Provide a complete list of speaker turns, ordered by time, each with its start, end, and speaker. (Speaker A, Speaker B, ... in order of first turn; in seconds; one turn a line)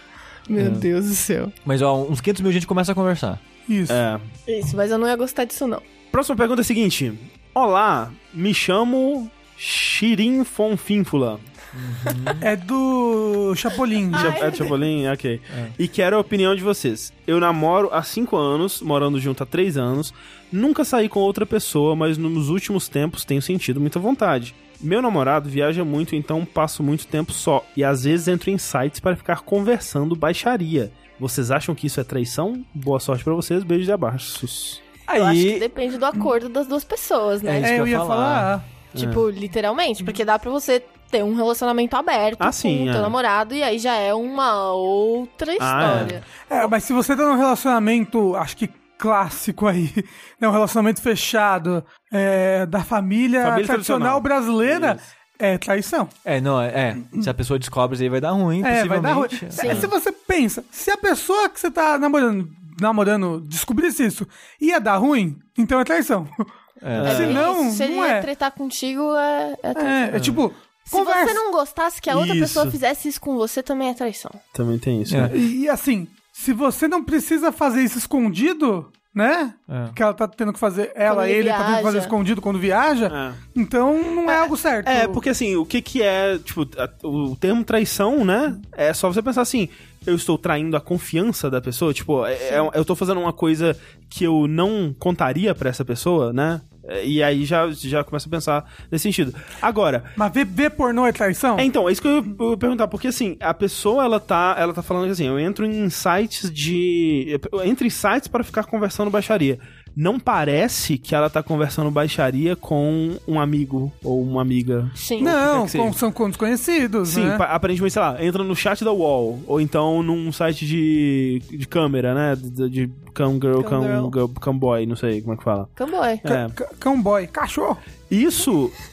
Speaker A: 0.5-1.5
Speaker B: 0.6-0.9
Speaker B: 1.6-3.4
Speaker C: 3.7-4.0
Speaker D: 3.9-4.3
Speaker A: 4.5-5.8
Speaker D: 6.1-11.4
Speaker B: 11.7-12.5
Speaker C: 12.4-14.4
Speaker A: 14.1-14.8
Speaker D: 14.1-34.8
Speaker B: 35.1-35.6
Speaker A: 35.1-37.8
Speaker B: 37.4-38.5
Speaker C: 37.6-38.7
Speaker D: 38.9-39.2
Speaker A: 39.0-46.7
Speaker D: 42.4-43.1
Speaker D: 45.6-46.2
Speaker C: 46.5-56.1
Speaker D: 53.4-55.0
Speaker B: 56.2-59.9
Speaker C: 58.6-66.5
Speaker A: 59.5-59.9
Speaker B: 66.8-67.4
Speaker D: 67.0-67.4
Speaker A: 67.0-70.3
Speaker C: 67.0-68.3
Speaker C: 69.8-71.4
Speaker B: 70.2-70.4
Speaker A: 70.9-74.4
Speaker D: 72.1-72.7
Speaker D: 74.5-75.4
Speaker B: 75.1-75.3
Speaker C: 75.3-85.2
Speaker B: 79.7-80.0
Speaker A: 81.1-82.1
Speaker D: 83.1-83.4
Speaker D: 84.8-100.2
Speaker C: 100.2-101.7
Speaker D: 101.6-116.0
Speaker A: 115.0-115.3
Speaker C: 115.2-117.4
Speaker D: 117.0-125.7
Speaker A: 123.6-124.1
Speaker A: 125.8-126.2
Speaker D: 126.2-126.6
Speaker C: 126.2-127.8
Speaker D: 128.1-128.7